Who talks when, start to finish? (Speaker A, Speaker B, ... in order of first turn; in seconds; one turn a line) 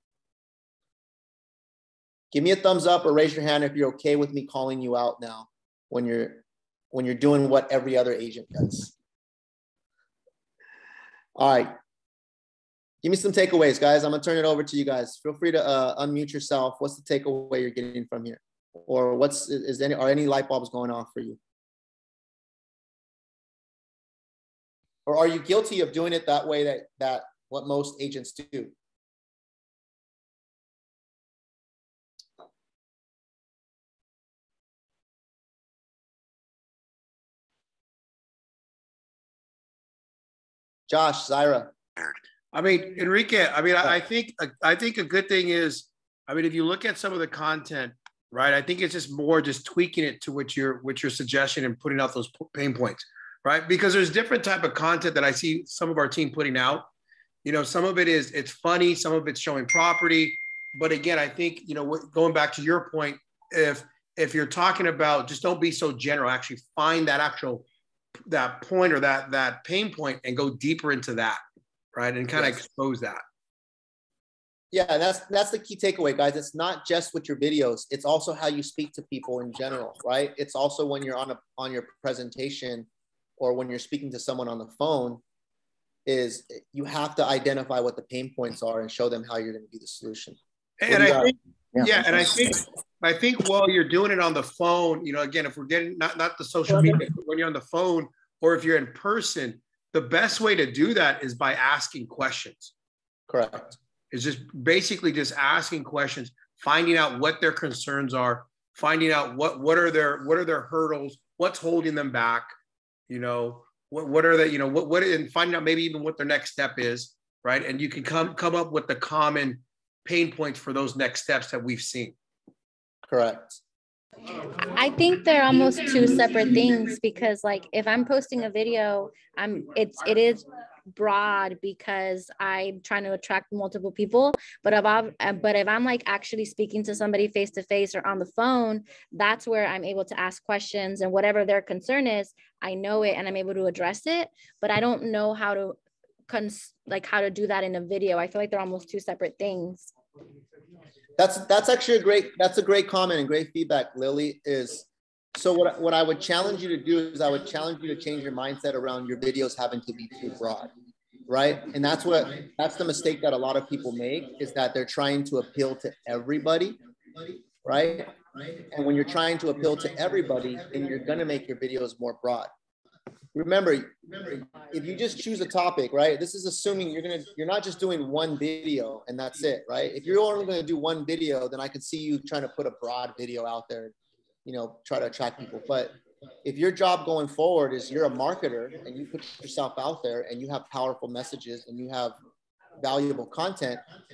Speaker A: 2.3-8.9
Speaker A: 11.3-11.7
Speaker A: 13.0-21.4
Speaker A: 25.1-28.7
Speaker A: 40.9-41.7
Speaker B: 42.5-56.9
Speaker B: 57.4-67.7
Speaker B: 68.3-71.4
Speaker B: 71.9-73.2
Speaker A: 74.7-82.9
Speaker A: 83.4-85.2
Speaker A: 86.0-90.4
Speaker B: 90.8-102.7
Speaker A: 90.9-92.3
Speaker A: 103.3-103.8
Speaker B: 104.1-112.5
Speaker B: 113.1-122.1
Speaker A: 123.1-123.6
Speaker C: 124.6-145.8
Speaker C: 146.3-149.9
Speaker A: 151.2-160.7
Speaker A: 161.3-166.8
Speaker A: 167.6-168.1
Speaker A: 168.7-172.5
Speaker A: 173.3-183.9
Speaker A: 184.4-192.2
Speaker A: 192.8-193.8